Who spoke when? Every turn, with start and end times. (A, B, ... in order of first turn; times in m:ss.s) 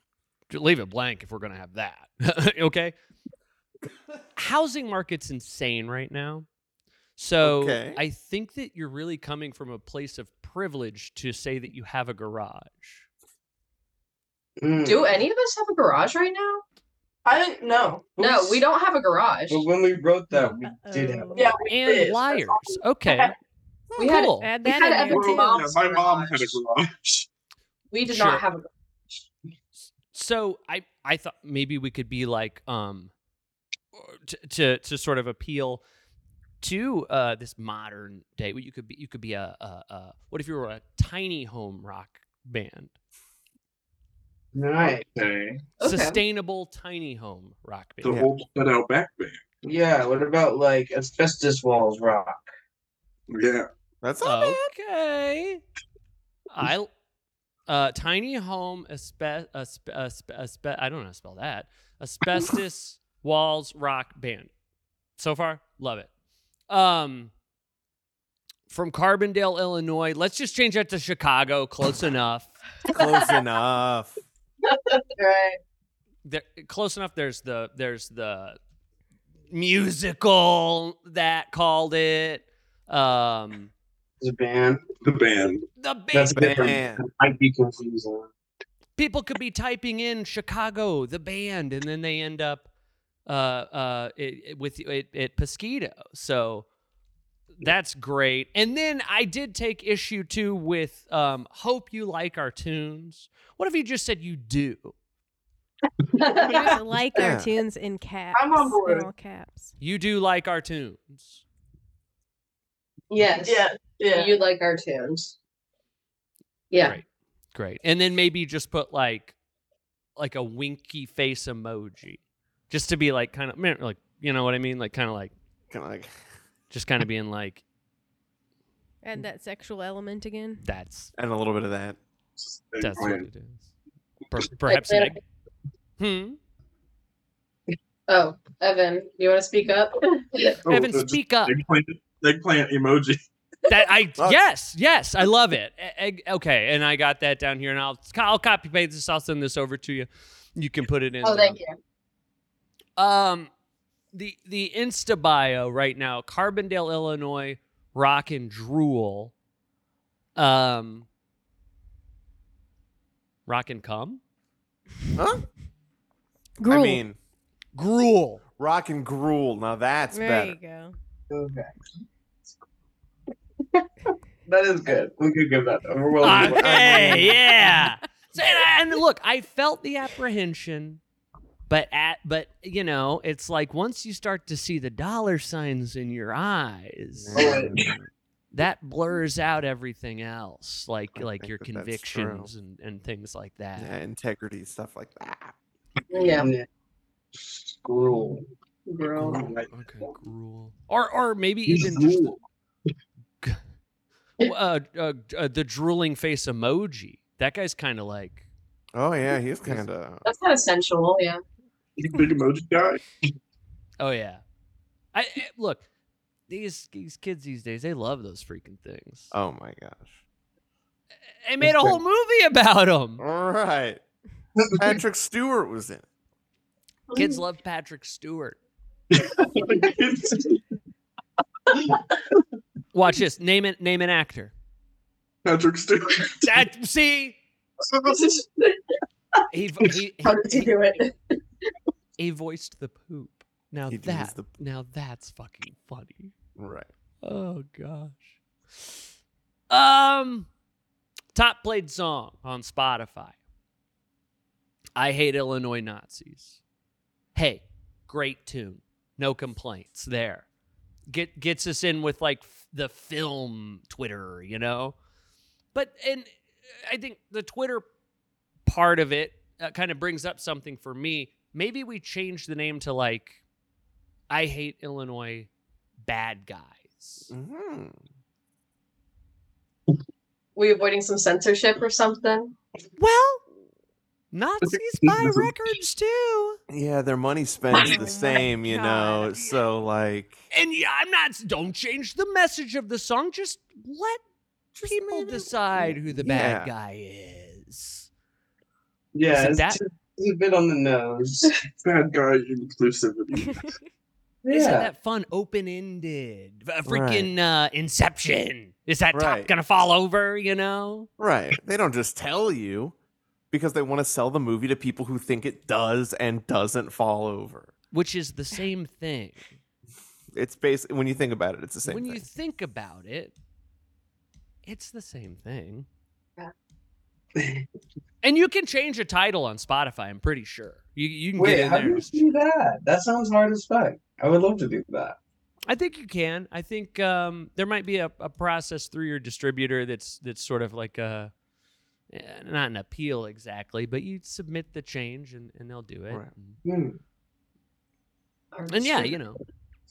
0:00.5-0:02.9 A
0:04.4-0:06.4 A
0:07.2-0:13.0 A
0:07.4-0:08.0 B
0:14.6-0:15.2 C
0:14.8-0:16.6 D
0:17.2-0:18.3 E
0:18.2-0:19.6 D
0:19.5-0:21.4 C
0:20.7-0:21.6 F
0:21.3-0:23.3 E
0:21.6-0:23.3 A
0:24.0-0:26.6 D
0:24.0-0:24.5 A
0:24.4-0:25.7 F
0:25.1-0:27.3 G
0:27.9-0:28.7 D
0:28.1-0:28.4 A
0:30.1-0:33.1 A
0:33.9-0:35.8 A
0:36.6-0:42.9 A
0:44.5-0:45.1 C
0:44.8-0:45.6 G
0:45.8-0:46.2 D
0:45.8-0:48.3 A
0:48.0-0:49.4 G
0:49.6-0:52.5 C
0:53.3-0:53.7 G
0:54.0-0:54.7 B
0:54.2-0:55.6 A
0:56.5-0:56.9 A
0:57.7-1:04.5 A
1:05.2-1:06.1 A
1:06.7-1:07.3 A
1:08.7-1:12.6 A
1:12.9-1:14.2 B
1:15.1-1:15.6 D
1:16.2-1:18.6 A
1:19.5-1:23.7 A
1:24.2-1:24.8 C
1:25.0-1:25.7 G
1:25.8-1:26.7 A
1:26.1-1:28.3 C
1:26.4-1:27.0 B
1:29.0-1:32.7 A
1:33.2-1:36.6 A
1:37.6-1:44.9 A
1:46.2-1:46.8 D
1:46.4-1:49.7 F
1:46.4-1:46.7 E
1:47.1-1:47.5 B
1:48.3-1:49.1 E
1:49.8-1:51.4 A
1:53.1-1:55.4 D
1:53.3-1:54.4 E
1:56.7-1:57.0 D
1:56.8-1:59.4 A
2:00.2-2:05.3 A
2:05.7-2:06.1 B
2:06.7-2:07.6 A
2:09.0-2:10.6 F
2:10.6-2:11.1 A
2:11.2-2:12.0 B
2:12.4-2:13.3 G
2:12.8-2:13.7 A
2:14.3-2:15.2 A
2:14.7-2:15.1 D
2:16.0-2:16.4 A
2:18.1-2:20.6 D
2:20.6-2:23.2 G
2:20.7-2:21.6 A
2:23.7-2:31.6 A
2:31.2-2:31.8 D
2:33.0-2:33.5 A
2:34.1-2:39.3 A
2:40.4-2:41.1 A
2:43.5-2:44.2 A
2:45.1-2:45.4 B
2:46.6-2:47.0 F
2:46.6-2:47.2 B
2:47.7-2:48.4 A
2:48.6-2:50.6 B
2:50.1-2:50.9 F
2:51.3-2:51.7 C
2:54.4-2:57.3 C
2:56.2-3:01.0 A
2:56.4-2:57.4 B
3:01.7-3:07.6 A
3:07.1-3:08.1 B
3:07.3-3:07.8 C
3:08.5-3:13.9 A
3:11.1-3:12.5 B
3:13.8-3:15.5 B
3:16.1-3:16.5 D
3:16.2-3:16.7 C
3:17.5-3:18.5 C
3:18.9-3:19.5 D
3:19.2-3:19.7 G
3:19.7-3:22.4 A
3:21.7-3:22.4 G
3:24.4-3:28.4 A
3:28.9-3:30.2 B
3:30.2-3:31.4 D
3:32.0-3:33.3 G
3:34.0-3:34.4 A
3:35.1-3:35.8 A
3:36.5-3:39.3 A
3:39.3-3:40.1 B
3:41.4-3:43.2 A
3:43.2-3:44.0 B
3:44.7-3:46.0 B
3:47.1-3:48.6 A
3:49.1-3:50.6 G
3:52.9-3:54.5 A
3:55.4-3:56.6 G
3:56.4-3:57.4 A
3:59.5-4:00.8 A
4:00.2-4:01.1 D
4:02.2-4:06.3 A
4:03.9-4:04.5 B
4:06.6-4:06.9 B
4:07.2-4:08.4 A
4:09.7-4:10.5 A
4:11.3-4:13.4 A
4:15.0-4:16.6 A
4:17.3-4:20.4 A
4:21.1-4:25.0 A
4:25.7-4:27.8 A
4:28.6-4:33.4 A
4:34.3-4:35.5 A
4:36.0-4:37.3 A
4:37.3-4:38.0 B
4:40.6-4:42.5 D
4:43.0-4:43.4 A
4:44.3-4:46.6 A
4:46.7-4:50.4 B
4:47.7-4:49.6 F
4:50.5-4:54.2 A
4:54.7-4:56.7 B
4:54.8-4:58.1 A
4:59.1-5:01.5 C
4:59.3-4:59.8 A
5:01.8-5:03.7 G
5:04.4-5:04.9 C
5:04.5-5:11.1 A
5:06.8-5:07.3 B
5:09.1-5:09.5 B
5:11.2-5:12.9 B
5:13.5-5:17.7 B
5:17.9-5:19.5 A
5:20.3-5:22.2 B
5:21.8-5:23.3 A
5:24.6-5:25.9 A
5:27.4-5:27.6 C
5:28.2-5:32.3 A
5:31.4-5:35.2 C
5:35.7-5:41.3 A
5:42.1-5:46.6 A
5:46.6-5:47.0 C
5:48.5-5:49.2 D
5:48.7-5:49.4 A